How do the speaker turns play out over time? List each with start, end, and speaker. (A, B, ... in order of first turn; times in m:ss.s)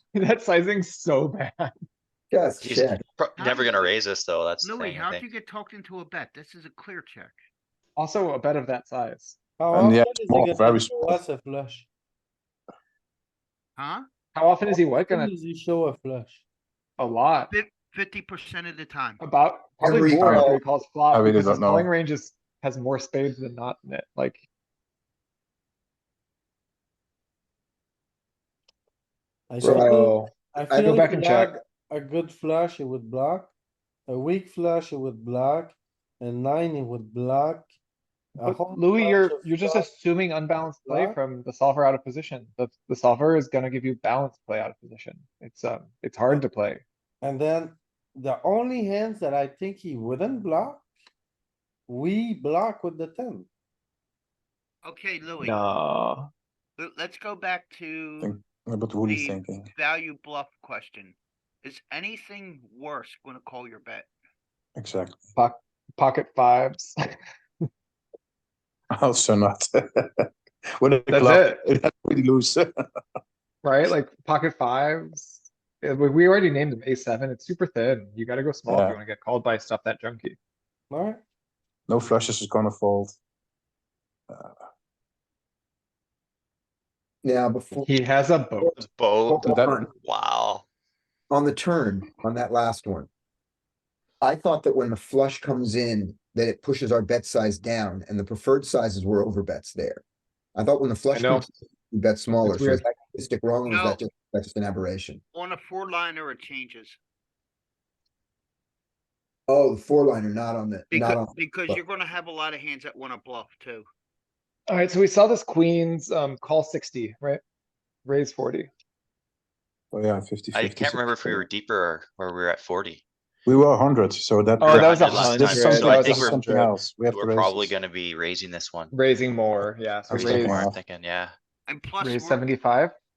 0:00.2-0:01.7 A
0:02.3-0:03.0 B
0:02.6-0:05.3 C
0:03.4-0:04.0 D
0:04.6-0:07.4 D
0:08.0-0:09.4 A
0:09.6-0:11.9 E
0:09.7-0:11.2 F
0:13.8-0:14.0 D
0:14.3-0:15.3 A
0:14.7-0:16.4 E
0:17.0-0:17.5 A
0:17.5-0:19.2 D
0:19.2-0:24.4 A
0:19.8-0:20.6 B
0:20.2-0:20.5 F
0:21.1-0:21.9 F
0:29.5-0:33.5 E
0:29.6-0:30.0 B
0:29.6-0:31.5 A
0:30.6-0:31.6 B
0:34.1-0:37.7 E
0:38.4-0:39.9 E
0:38.4-0:46.8 A
0:40.8-0:41.2 E
0:47.2-0:50.9 E
0:51.9-0:53.5 E
0:54.8-0:55.6 D
0:55.4-0:56.3 A
0:56.8-0:58.3 D
0:58.2-0:59.7 F
0:59.0-1:04.1 D
1:04.8-1:05.2 F
1:05.4-1:07.2 A
1:08.9-1:12.7 F
1:11.1-1:11.6 A
1:13.6-1:20.4 A
1:18.7-1:19.0 F
1:20.9-1:21.2 E
1:21.9-1:23.2 F
1:24.3-1:24.6 F
1:27.2-1:27.9 B
1:27.8-1:28.9 A
1:28.8-1:30.6 C
1:29.3-1:29.9 B
1:29.4-1:29.8 F
1:31.3-1:33.1 B
1:34.2-1:40.0 B
1:40.6-1:45.2 B
1:41.1-1:41.5 A
1:42.4-1:42.8 A
1:43.7-1:44.0 D
1:45.3-1:47.0 D
1:49.5-1:51.8 B
1:50.9-1:53.8 D
1:54.7-1:57.4 A
1:58.0-1:58.7 A
1:59.9-2:01.5 F
2:00.5-2:03.0 C
2:03.5-2:07.7 F
2:04.6-2:06.6 A
2:04.7-2:06.5 C
2:07.1-2:08.9 C
2:08.9-2:10.6 A
2:10.1-2:10.8 F
2:10.1-2:11.3 C
2:11.7-2:12.4 D
2:12.0-2:12.9 A